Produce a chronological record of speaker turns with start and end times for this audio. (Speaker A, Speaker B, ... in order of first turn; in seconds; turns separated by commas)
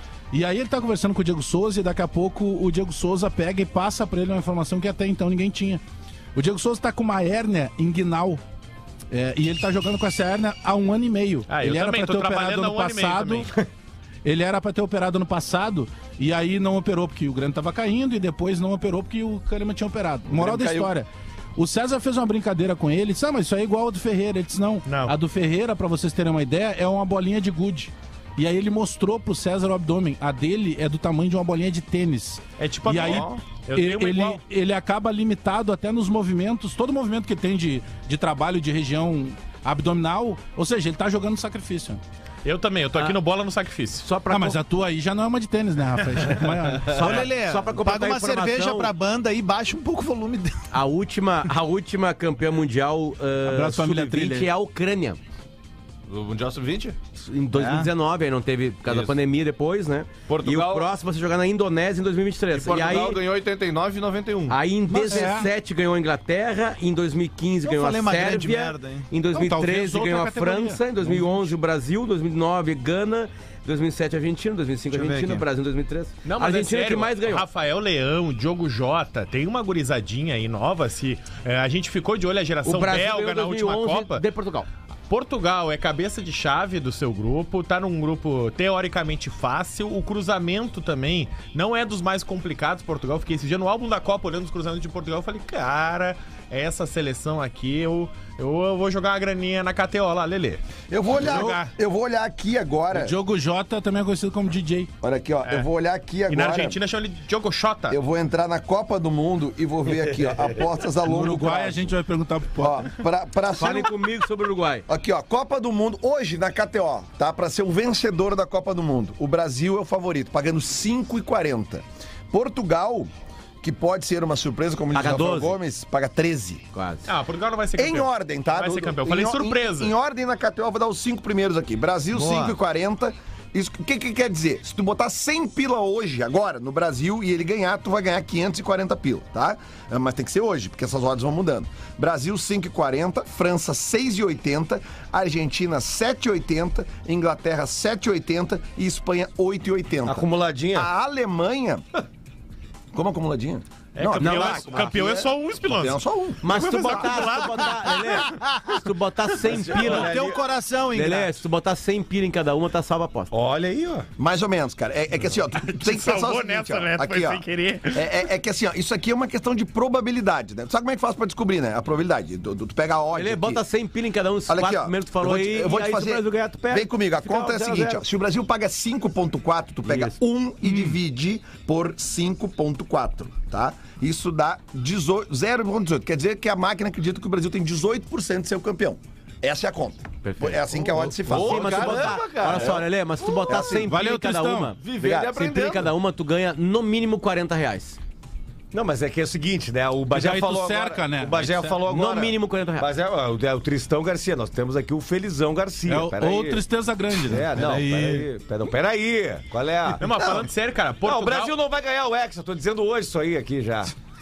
Speaker A: 0.3-5.8, Speaker A: 6.3-8.4, Speaker A: 9.1-13.5, Speaker B: 11.5-13.5, Speaker A: 14.2-42.0, Speaker C: 20.3-20.9, Speaker B: 24.9-25.1, Speaker B: 32.6-34.4, Speaker D: 33.0-33.4, Speaker B: 42.5-44.1, Speaker E: 44.0-44.6, Speaker A: 44.3-47.1, Speaker E: 46.8-48.9, Speaker F: 46.9-50.6, Speaker E: 50.7-55.2, Speaker A: 53.5-54.5, Speaker D: 56.1-57.0, Speaker E: 57.1-63.2, Speaker F: 57.5-57.9, Speaker D: 58.9-59.2, Speaker D: 60.3-61.0, Speaker D: 62.5-64.6, Speaker E: 64.5-77.5, Speaker F: 64.9-65.4, Speaker A: 65.1-65.5, Speaker F: 67.6-69.1, Speaker A: 69.3-71.5, Speaker F: 74.9-75.5, Speaker B: 76.2-84.2, Speaker E: 82.6-84.7, Speaker B: 85.1-100.6, Speaker C: 100.9-103.2, Speaker A: 101.2-101.7, Speaker B: 101.3-101.6, Speaker A: 102.9-104.9, Speaker C: 105.0-106.8, Speaker B: 106.3-108.0, Speaker C: 107.9-111.9, Speaker A: 111.0-112.9, Speaker C: 112.6-114.0, Speaker E: 113.5-114.9, Speaker C: 114.9-123.1, Speaker C: 123.6-126.6, Speaker E: 124.9-125.6, Speaker E: 126.7-127.1, Speaker B: 127.1-129.9, Speaker C: 127.8-151.8, Speaker F: 132.1-132.6, Speaker G: 150.1-150.9, Speaker C: 152.9-157.1, Speaker B: 153.9-158.2, Speaker E: 154.2-154.9, Speaker E: 156.4-160.2, Speaker F: 158.3-158.7, Speaker G: 159.4-160.4, Speaker F: 159.7-161.4, Speaker E: 160.9-163.3, Speaker G: 163.3-164.1, Speaker C: 164.2-173.6, Speaker B: 165.6-168.2, Speaker E: 173.1-178.0, Speaker C: 174.5-192.8, Speaker E: 179.8-180.2, Speaker A: 180.7-180.9, Speaker E: 190.2-198.0, Speaker D: 191.2-192.8, Speaker G: 191.7-192.7, Speaker A: 193.5-194.8, Speaker D: 194.8-195.9, Speaker G: 198.7-206.7, Speaker A: 200.1-201.8, Speaker E: 201.9-202.9, Speaker A: 205.9-208.3, Speaker G: 207.2-210.5, Speaker B: 210.0-211.6, Speaker G: 211.0-213.9